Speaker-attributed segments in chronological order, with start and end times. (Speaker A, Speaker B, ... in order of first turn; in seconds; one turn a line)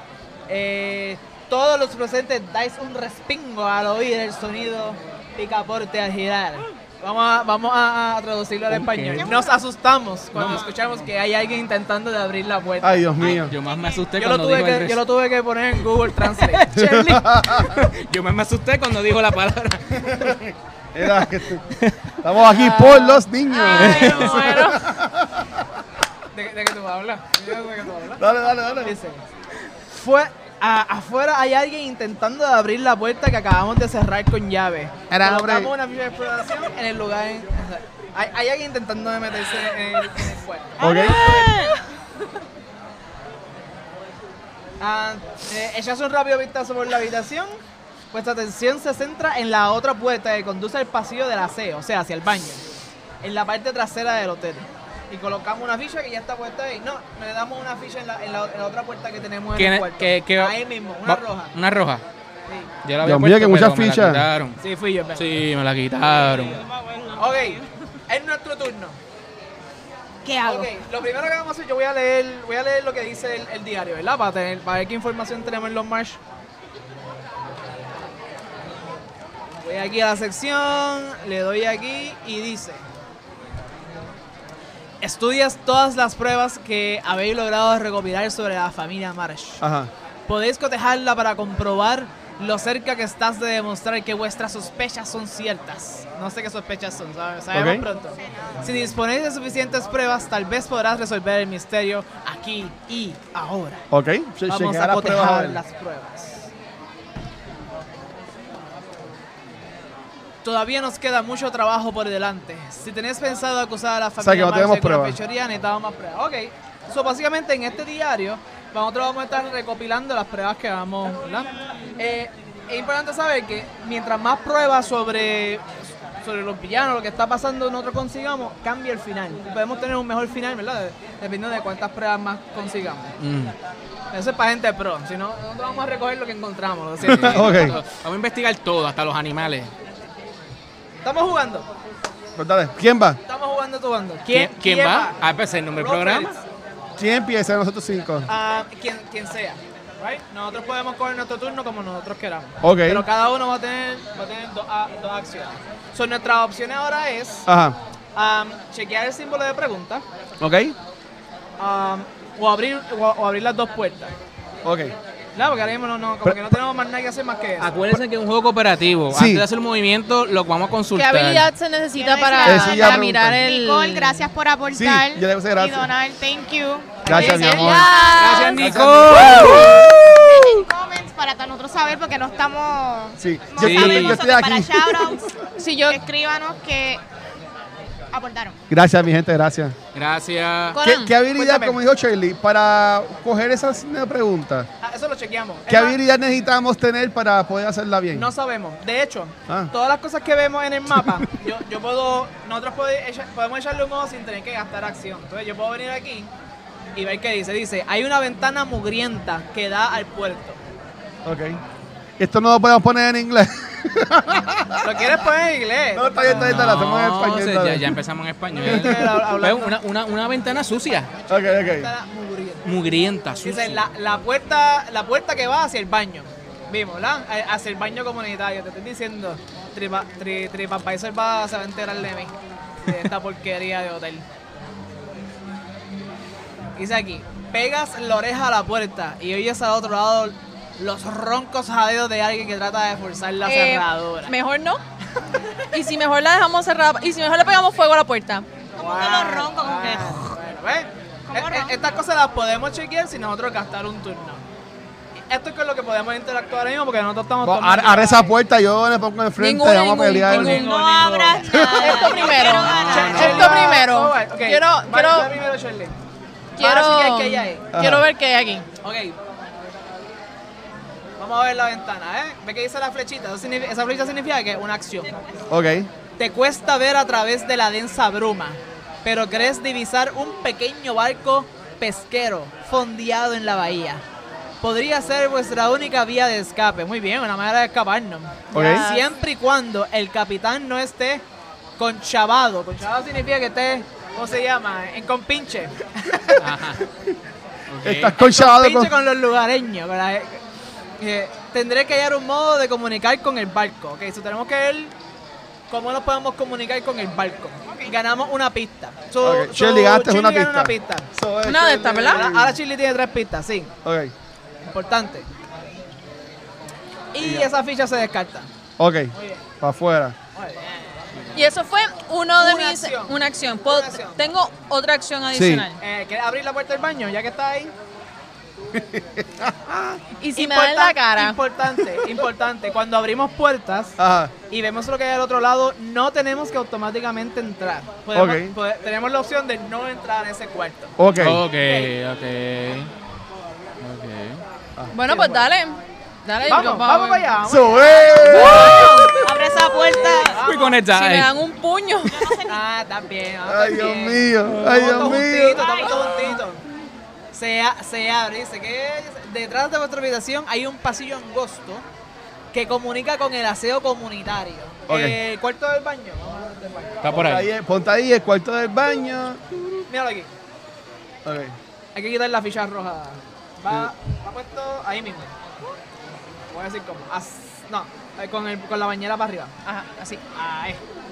Speaker A: 0.5-13.1
Speaker B: 8.7-9.4
Speaker C: 9.2-9.6
Speaker B: 10.3-10.6
Speaker C: 10.4-10.8
Speaker D: 12.8-13.6
Speaker C: 13.2-14.1
Speaker B: 13.2-15.0
Speaker A: 14.2-16.7
Speaker B: 16.3-20.4
Speaker D: 16.7-17.8
Speaker D: 20.1-21.6
Speaker D: 22.2-25.7
Speaker E: 22.4-24.8
Speaker A: 23.6-24.4
Speaker B: 23.8-24.3
Speaker A: 26.3-29.2
Speaker D: 28.2-29.0
Speaker A: 29.9-41.6
Speaker D: 35.1-35.7
Speaker C: 40.8-41.7
Speaker D: 40.8-41.2
Speaker A: 44.8-47.6
Speaker A: 48.1-52.6
Speaker A: 53.2-61.5
Speaker B: 59.6-62.0
Speaker B: 62.8-64.6
Speaker D: 63.0-64.2
Speaker A: 64.6-65.3
Speaker B: 65.2-66.6
Speaker C: 66.0-67.7
Speaker A: 67.2-69.0
Speaker C: 70.2-70.8
Speaker A: 70.4-76.2
Speaker A: 79.6-82.8
Speaker A: 85.0-89.6
Speaker D: 89.6-89.9
Speaker A: 90.3-103.8
Speaker D: 97.5-97.8
Speaker C: 97.9-98.7
Speaker D: 103.9-105.6
Speaker A: 104.5-106.5
Speaker A: 110.4-125.7
Speaker D: 114.2-115.2
Speaker A: 126.2-133.1
Speaker B: 133.2-133.5
Speaker A: 134.1-137.8
Speaker B: 137.0-139.7
Speaker D: 137.1-137.8
Speaker A: 141.0-141.7
Speaker D: 142.4-143.2
Speaker A: 143.3-145.2
Speaker B: 144.3-146.4
Speaker A: 145.8-146.4
Speaker D: 147.0-148.3
Speaker A: 148.3-157.5
Speaker D: 152.6-153.0
Speaker D: 157.5-157.8
Speaker A: 158.2-160.1
Speaker D: 160.4-160.8
Speaker A: 161.6-164.1
Speaker D: 164.6-164.9
Speaker A: 165.3-167.7
Speaker D: 166.2-166.5
Speaker B: 167.6-171.5
Speaker D: 169.1-169.4
Speaker E: 170.9-174.2
Speaker C: 171.9-177.2
Speaker D: 172.4-173.4
Speaker D: 174.7-175.9
Speaker A: 177.0-178.0
Speaker D: 177.1-177.9
Speaker E: 177.1-178.8
Speaker B: 178.0-179.9
Speaker C: 178.0-178.6
Speaker D: 178.6-179.9
Speaker C: 179.1-185.3
Speaker D: 183.2-185.3
Speaker B: 183.6-184.2
Speaker E: 185.6-186.0
Speaker C: 185.9-187.0
Speaker C: 188.1-188.6
Speaker D: 188.7-189.8
Speaker B: 189.9-190.8
Speaker E: 190.7-191.1
Speaker D: 190.8-194.7
Speaker A: 191.3-191.8
Speaker A: 194.8-196.0
Speaker D: 195.7-198.3
Speaker A: 198.1-206.3
Speaker D: 200.9-201.3
Speaker A: 206.9-210.6
Speaker D: 211.2-211.6
Speaker D: 212.2-215.2
Speaker A: 214.8-216.6
Speaker D: 215.9-217.9
Speaker B: 216.3-221.1
Speaker A: 218.6-219.8
Speaker D: 218.7-219.2
Speaker A: 221.2-222.7
Speaker D: 221.3-221.9
Speaker B: 222.7-223.8
Speaker A: 223.4-232.3
Speaker A: 232.8-234.2
Speaker A: 236.8-244.4
Speaker E: 243.4-244.8
Speaker E: 245.7-248.5
Speaker C: 248.8-250.3
Speaker A: 248.8-254.4
Speaker C: 251.3-251.8
Speaker A: 255.3-258.3
Speaker D: 257.4-260.7
Speaker E: 259.4-261.1
Speaker A: 260.3-266.0
Speaker C: 260.4-263.8
Speaker D: 261.5-262.0
Speaker E: 261.8-265.3
Speaker E: 266.6-268.7
Speaker A: 266.6-267.6
Speaker D: 267.7-268.1
Speaker A: 268.8-269.2
Speaker A: 271.2-275.1
Speaker C: 275.0-275.5
Speaker D: 275.5-275.9
Speaker A: 276.2-284.0
Speaker A: 284.6-291.2
Speaker E: 288.5-289.1
Speaker D: 288.5-288.8
Speaker A: 291.8-296.4
Speaker B: 296.4-296.9
Speaker B: 297.7-298.1
Speaker D: 297.8-298.9
Speaker A: 298.2-300.4
Speaker A: 301.0-304.9
Speaker A: 305.7-311.1
Speaker C: 307.7-308.0
Speaker D: 309.2-312.6
Speaker E: 311.4-312.3
Speaker A: 312.0-313.7
Speaker D: 313.8-314.1
Speaker A: 314.6-315.3
Speaker A: 317.1-318.5
Speaker D: 317.2-317.5
Speaker D: 318.8-320.2
Speaker A: 319.1-319.4
Speaker A: 320.3-321.4
Speaker E: 321.3-325.8
Speaker A: 322.4-324.3
Speaker D: 325.3-325.7
Speaker A: 325.8-327.7
Speaker D: 328.7-330.0
Speaker E: 330.2-331.4
Speaker A: 330.4-334.0
Speaker D: 334.0-334.3
Speaker A: 334.5-341.0
Speaker D: 338.1-338.6
Speaker D: 341.0-341.4
Speaker B: 341.2-342.9
Speaker B: 343.8-344.4
Speaker E: 344.9-347.3
Speaker A: 345.0-345.5
Speaker A: 346.4-350.8
Speaker D: 347.4-348.8
Speaker E: 348.3-349.2
Speaker B: 348.9-349.3
Speaker C: 349.1-350.4
Speaker B: 350.4-351.3
Speaker E: 350.9-352.4
Speaker C: 352.1-352.6
Speaker A: 352.5-356.6
Speaker D: 353.5-355.6
Speaker C: 355.6-356.4
Speaker A: 357.3-361.9
Speaker A: 362.5-367.0
Speaker D: 364.9-365.2
Speaker B: 367.0-367.5
Speaker D: 367.1-369.8
Speaker A: 369.9-370.3
Speaker D: 371.2-371.6
Speaker A: 371.9-375.3
Speaker A: 376.5-379.6
Speaker E: 379.7-380.2
Speaker A: 380.3-380.8